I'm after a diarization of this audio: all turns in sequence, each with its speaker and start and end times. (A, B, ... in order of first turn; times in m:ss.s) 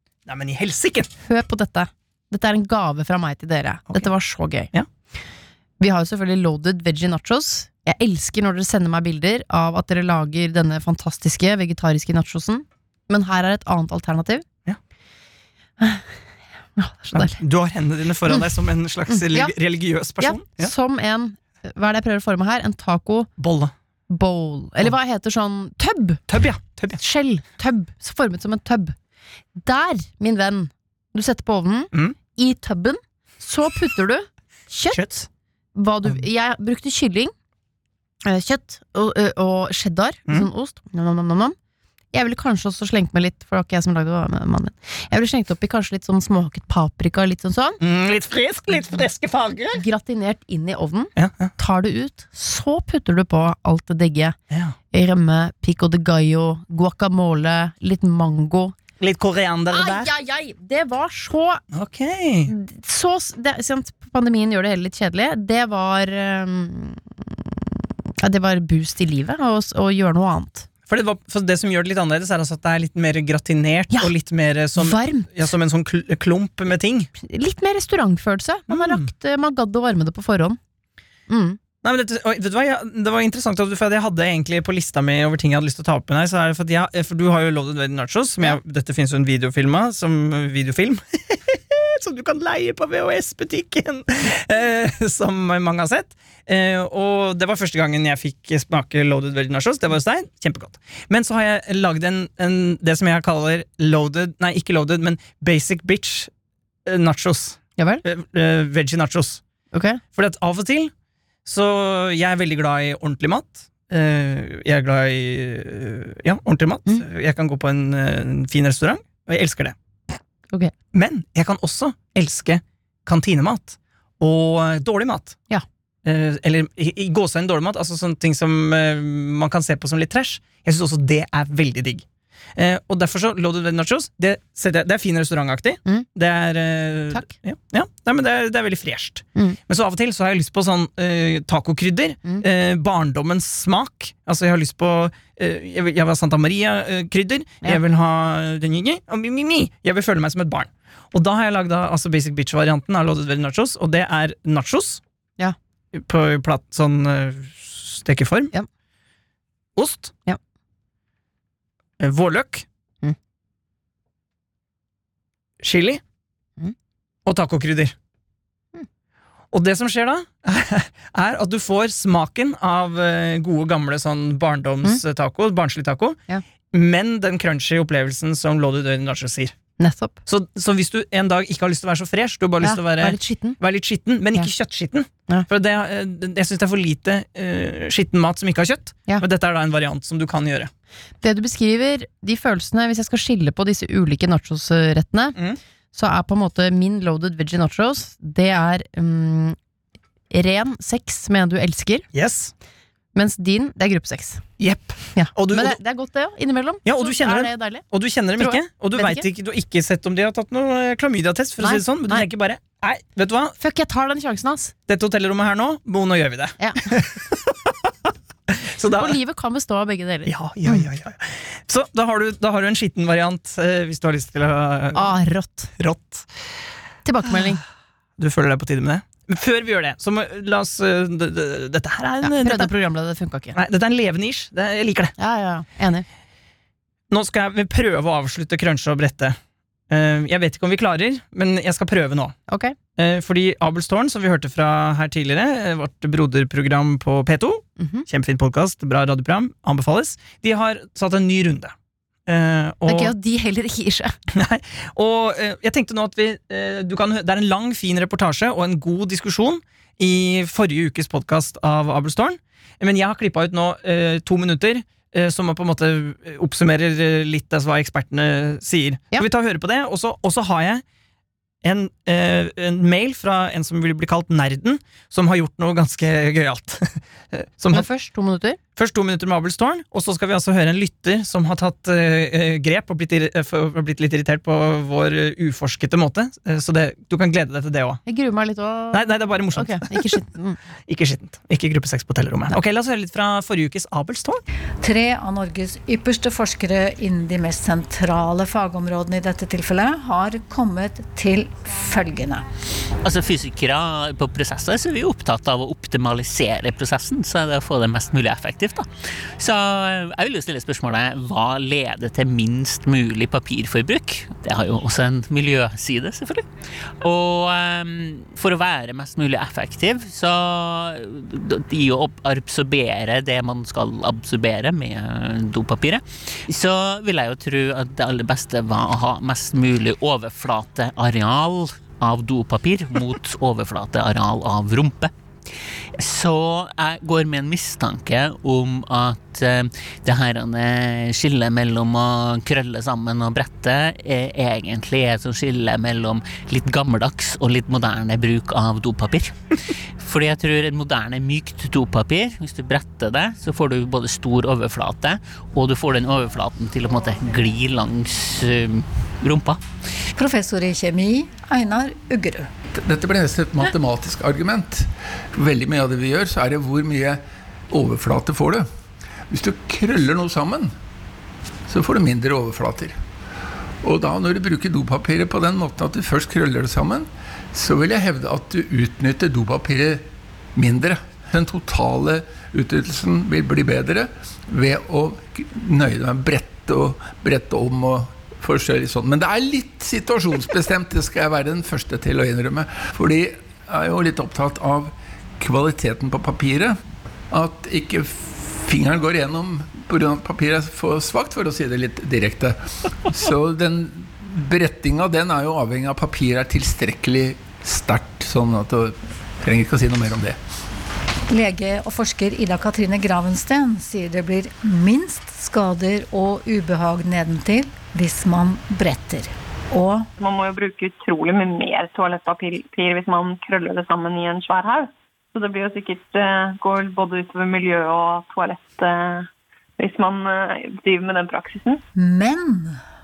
0:00.3-0:01.1 A
0:01.2-0:04.7 B
0:05.8-0:14.4 B
0:15.8-0:16.1 B
0:16.8-0:17.3 B
0:17.1-0:20.7 A
0:19.1-0:19.5 B
0:20.2-0:23.3 B
0:23.4-0:23.7 A
0:24.1-0:26.2 B
0:26.3-0:27.0 A
0:27.0-0:28.9 B
0:29.6-0:35.0 B
0:34.9-0:35.3 A
0:35.7-0:37.3 B
0:38.2-0:41.6 B
0:42.1-0:47.8 B
0:47.8-0:49.8 A
0:49.7-0:54.4 B
0:51.2-0:51.5 A
0:54.9-0:58.7 B
0:59.0-1:00.1 A
0:59.7-1:01.6 B
1:01.7-1:02.5 A
1:02.5-1:07.6 B
1:08.2-1:10.7 B
1:10.9-1:17.1 A
1:14.8-1:15.3 B
1:17.2-1:20.6 B
1:18.7-1:19.1 A
1:21.3-1:21.6 B
1:21.8-1:46.3 A
1:46.8-1:49.4 A
1:49.7-1:50.0 B
1:50.1-1:50.9 A
1:51.4-1:59.7 A
2:00.9-2:05.4 A
2:06.0-2:12.0 A
2:12.6-2:35.0 A
2:35.9-2:38.5 A
2:39.8-2:40.1 A
2:42.0-2:42.6 A
2:45.6-2:46.0 A
2:47.2-2:47.9 A
2:49.5-2:56.2 A
2:56.7-2:59.5 A
2:59.8-3:00.2 B
3:00.2-3:10.7 A
3:02.6-3:03.6 B
3:11.2-3:15.4 B
3:15.9-3:19.6 B
3:20.3-3:22.1 B
3:22.1-3:22.5 A
3:23.1-3:24.4 B
3:24.6-3:25.8 A
3:25.1-3:27.8 B
3:26.8-3:33.5 A
3:28.4-3:29.2 B
3:31.6-3:32.3 B
3:33.6-3:34.7 B
3:34.9-3:39.2 A
3:36.6-3:36.9 B
3:38.9-3:40.8 B
3:40.3-3:45.2 A
3:44.9-3:45.7 B
3:45.8-3:46.3 A
3:47.0-3:47.6 B
3:48.2-3:52.7 A
3:52.2-3:53.6 B
3:53.5-3:55.1 A
3:55.2-3:56.0 B
3:57.1-3:59.4 A
3:59.9-4:02.4 A
4:02.5-4:02.8 B
4:03.0-4:11.7 A
4:07.8-4:08.0 B
4:12.3-4:13.1 A
4:12.8-4:14.1 B
4:14.3-4:30.8 A
4:31.6-4:37.8 A
4:37.7-4:38.6 B
4:38.8-4:48.0 A
4:48.0-4:50.6 B
4:48.9-4:50.1 A
4:50.9-4:54.4 A
4:54.8-5:02.4 C
5:03.0-5:35.1 D
5:36.0-5:49.3 D
5:50.0-5:59.6 D
6:00.1-6:02.5 C
6:02.7-6:08.7 E
6:09.3-6:10.7 E
6:11.7-6:13.0 E
6:13.8-6:36.8 E
6:37.3-6:50.4 E
6:51.3-7:00.1 C
7:00.2-7:11.8 F
7:12.0-7:12.8 C